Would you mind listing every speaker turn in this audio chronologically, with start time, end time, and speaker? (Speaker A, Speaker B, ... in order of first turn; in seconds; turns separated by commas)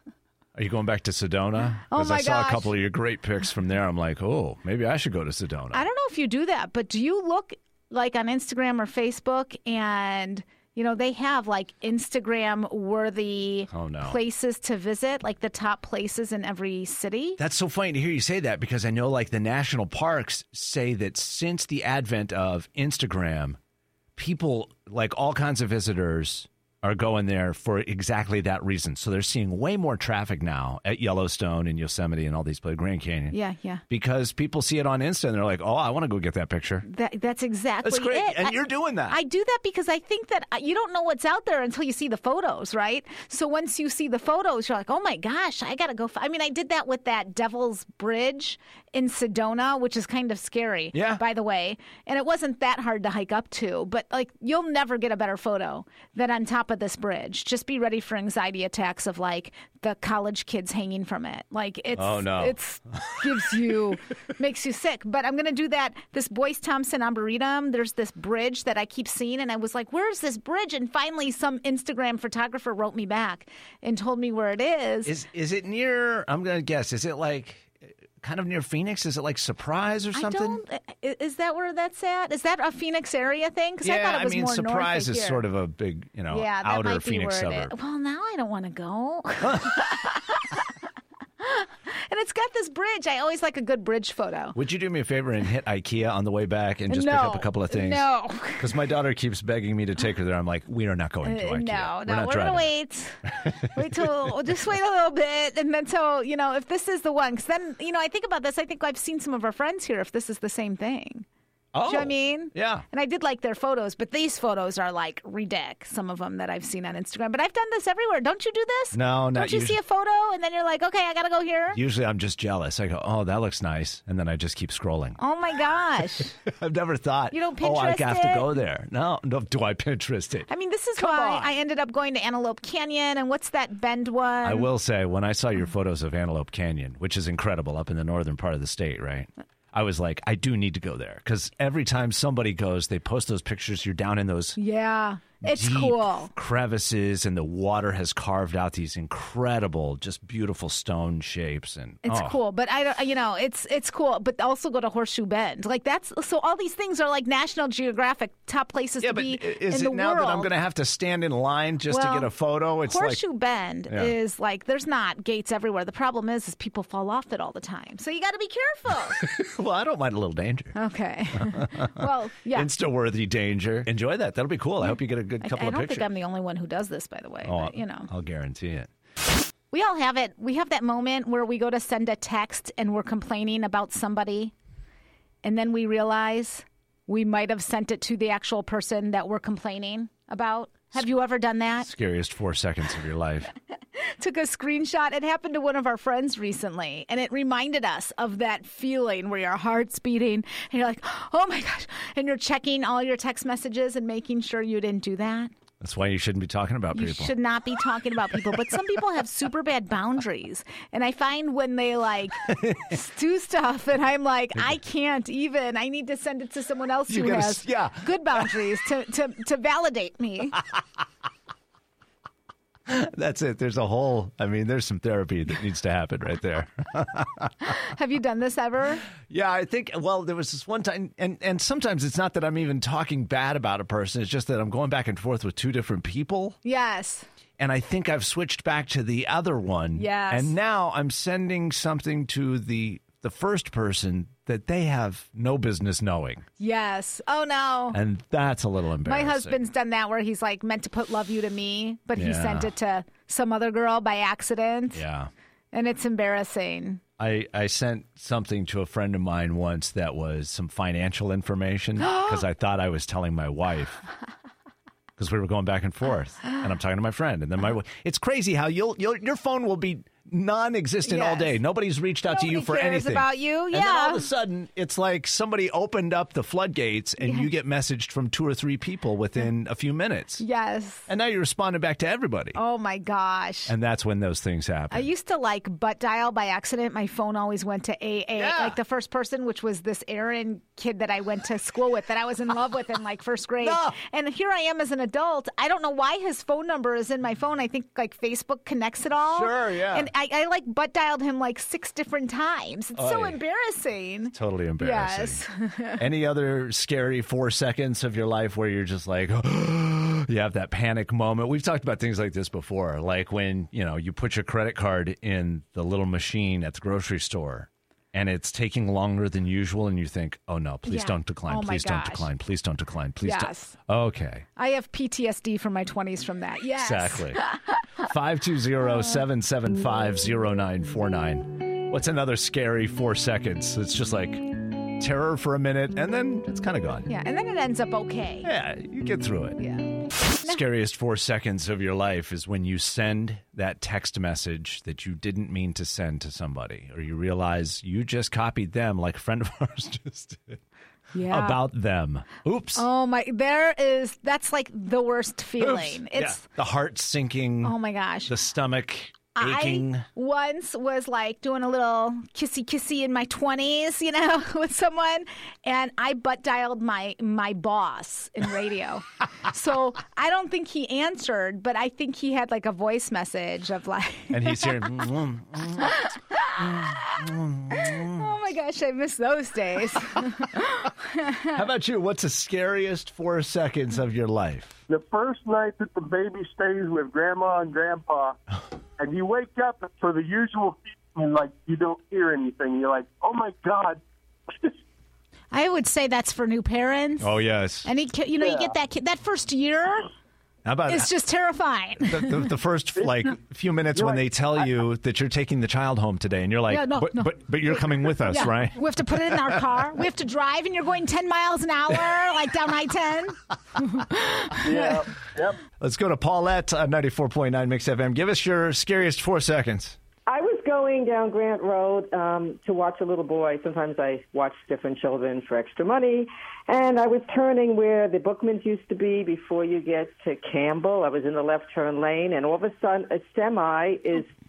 Speaker A: 0.5-5.9, Speaker B: 1.9-2.7, Speaker B: 5.7-17.4, Speaker A: 13.7-14.2, Speaker A: 17.4-23.6, Speaker A: 24.1-33.4, Speaker B: 33.3-33.8, Speaker A: 33.9-36.9, Speaker B: 36.8-75.1, Speaker A: 37.8-39.2, Speaker A: 50.9-51.2, Speaker A: 62.0-63.1, Speaker A: 75.0-80.6, Speaker B: 80.1-85.5, Speaker A: 83.8-87.7, Speaker B: 86.3-90.6, Speaker A: 89.4-89.9, Speaker B: 91.4-94.6, Speaker A: 94.5-102.7, Speaker B: 96.9-98.6, Speaker B: 101.2-103.2, Speaker A: 103.4-104.3, Speaker B: 103.7-111.2, Speaker A: 111.7-112.8, Speaker B: 111.8-121.8, Speaker A: 118.9-119.8, Speaker A: 121.7-125.2, Speaker B: 125.2-126.4, Speaker A: 126.5-131.5, Speaker B: 127.3-128.5, Speaker B: 130.5-134.7, Speaker A: 134.4-144.6, Speaker B: 144.6-146.3, Speaker A: 145.4-152.4, Speaker B: 152.0-160.5, Speaker A: 159.0-163.2, Speaker B: 161.9-169.2, Speaker A: 163.9-164.1, Speaker A: 169.2-170.8, Speaker B: 170.8-172.7, Speaker A: 171.4-176.1, Speaker B: 175.4-178.1, Speaker A: 177.4-178.9, Speaker B: 179.7-184.5, Speaker B: 185.4-191.9, Speaker A: 191.8-193.5, Speaker B: 194.0-205.5, Speaker A: 205.8-207.3, Speaker B: 206.9-220.6, Speaker A: 212.4-213.0, Speaker A: 217.1-218.1, Speaker A: 222.9-227.5, Speaker B: 227.7-229.0, Speaker A: 229.2-236.6, Speaker B: 236.6-237.2, Speaker A: 237.6-246.5, Speaker B: 240.0-240.5, Speaker B: 246.6-248.0, Speaker A: 247.9-249.6, Speaker B: 249.0-255.0, Speaker A: 252.1-252.7, Speaker A: 254.9-255.3, Speaker B: 255.7-257.0, Speaker A: 257.2-264.0, Speaker B: 262.0-262.4, Speaker A: 265.2-280.4, Speaker B: 271.1-271.6, Speaker B: 272.3-274.3, Speaker B: 277.2-277.5, Speaker B: 280.4-281.1, Speaker A: 281.1-282.6, Speaker B: 282.5-283.7, Speaker A: 283.7-285.1, Speaker B: 284.9-306.0, Speaker A: 288.4-288.8, Speaker A: 293.6-294.0, Speaker A: 299.3-300.1, Speaker A: 302.9-303.4, Speaker A: 304.3-305.4, Speaker A: 306.0-324.5, Speaker B: 320.9-322.3, Speaker B: 323.2-323.8, Speaker B: 324.6-327.6, Speaker A: 326.8-327.4, Speaker A: 328.0-337.1, Speaker B: 337.1-338.5, Speaker A: 338.4-339.6, Speaker B: 339.6-340.6, Speaker A: 340.3-350.6, Speaker B: 351.1-351.6, Speaker A: 351.2-352.9, Speaker B: 352.8-356.4, Speaker A: 355.6-357.8, Speaker B: 357.6-358.3, Speaker A: 358.3-360.1, Speaker B: 359.4-374.8, Speaker A: 374.3-376.0, Speaker B: 375.8-377.0, Speaker A: 376.6-378.2, Speaker B: 377.7-381.5, Speaker A: 381.5-384.8, Speaker C: 384.9-388.4, Speaker C: 389.0-394.0, Speaker B: 395.5-397.3, Speaker A: 397.2-397.9, Speaker B: 397.8-400.1, Speaker C: 398.4-398.7, Speaker A: 400.6-401.1, Speaker B: 400.9-402.5, Speaker A: 402.1-409.6, Speaker C: 403.0-403.3, Speaker C: 403.9-404.2, Speaker B: 406.7-415.0, Speaker C: 414.6-415.6, Speaker A: 415.8-420.0, Speaker D: 420.3-434.3